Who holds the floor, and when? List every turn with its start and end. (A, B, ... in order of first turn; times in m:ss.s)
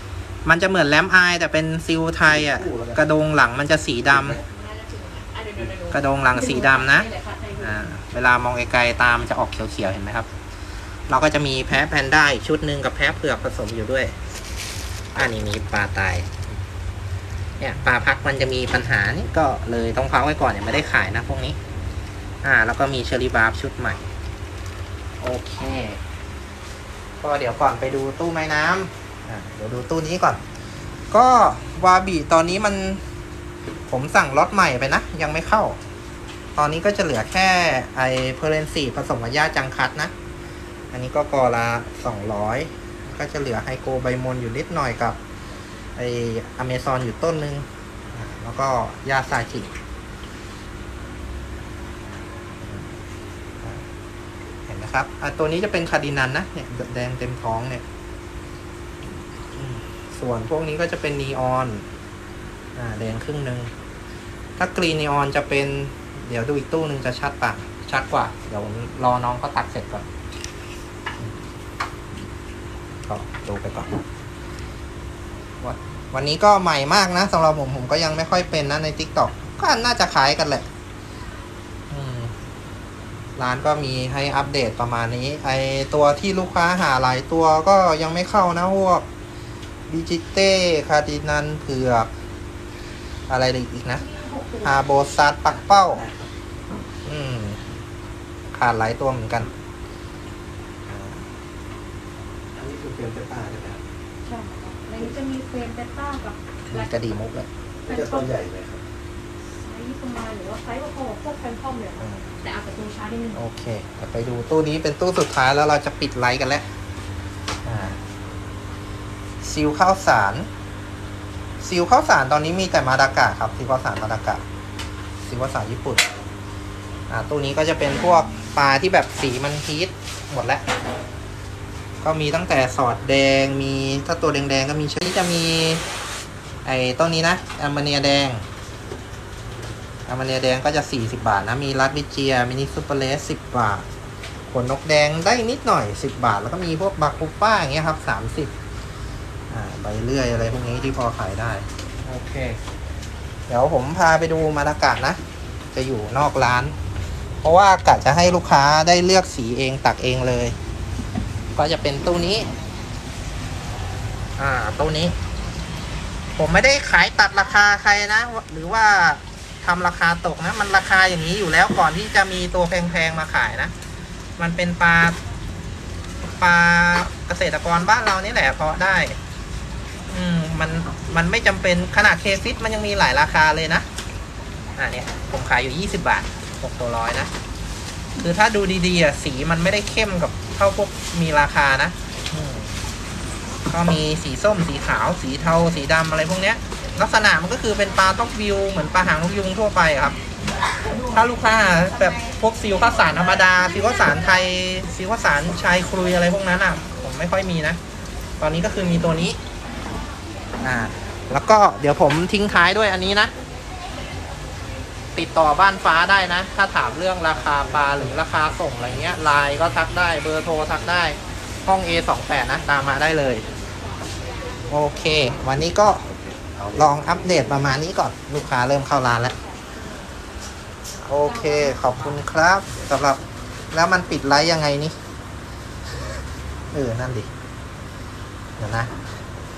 0:00.4-0:04.4 A
0:02.4-0:03.0 B
0:04.4-0:07.8 C
0:05.9-0:10.3 A
0:11.1-0:14.2 A
0:15.2-0:16.4 A
0:17.6-0:21.6 A
0:22.4-0:24.0 A
0:25.2-0:26.0 A
0:27.2-0:30.4 A
0:31.1-0:33.0 A
0:33.9-0:35.8 A
0:36.6-0:40.1 A
0:40.9-0:45.2 A
0:46.0-0:49.7 A
0:52.6-0:52.9 A
0:54.7-0:57.8 A
0:59.6-1:01.9 A
1:02.8-1:03.7 A
1:04.6-1:10.1 A
1:13.1-1:14.0 A
1:15.6-1:20.7 A
1:21.9-1:22.3 A
1:23.4-1:29.0 A
1:29.9-1:32.1 A
1:33.3-1:34.0 A
1:34.0-1:35.1 C
1:34.6-1:36.0 A
1:35.7-1:36.3 B
1:37.0-1:37.6 A
1:38.5-1:39.5 A
1:40.9-1:41.2 A
1:42.6-1:43.8 B
1:44.2-1:47.2 C
1:46.7-1:47.5 A
1:47.9-1:48.8 B
1:47.9-1:48.4 C
1:49.6-1:53.4 C
1:52.0-1:52.3 A
1:53.3-1:56.7 A
1:57.6-1:58.0 A
1:59.4-2:00.5 A
2:01.6-2:04.4 A
2:05.2-2:06.1 A
2:07.1-2:10.7 A
2:12.0-2:15.8 A
2:16.6-2:18.4 A
2:20.1-2:23.9 A
2:24.5-2:28.5 A
2:29.5-2:32.6 A
2:33.5-2:35.2 A
2:35.7-2:36.8 A
2:37.4-2:40.6 A
2:41.6-2:42.5 A
2:44.4-2:45.2 A
2:46.4-2:53.7 A
2:54.4-2:55.2 A
2:56.4-2:59.2 A
3:00.1-3:03.9 A
3:04.8-3:07.3 A
3:08.2-3:12.7 A
3:13.7-3:20.2 A
3:20.9-3:27.8 A
3:28.4-3:29.4 A
3:30.6-3:33.3 A
3:35.2-3:43.5 A
3:44.7-3:49.4 A
3:51.0-3:53.2 A
3:51.4-3:51.8 C
3:53.7-3:55.0 A
3:56.7-3:57.3 A
3:58.6-3:59.0 A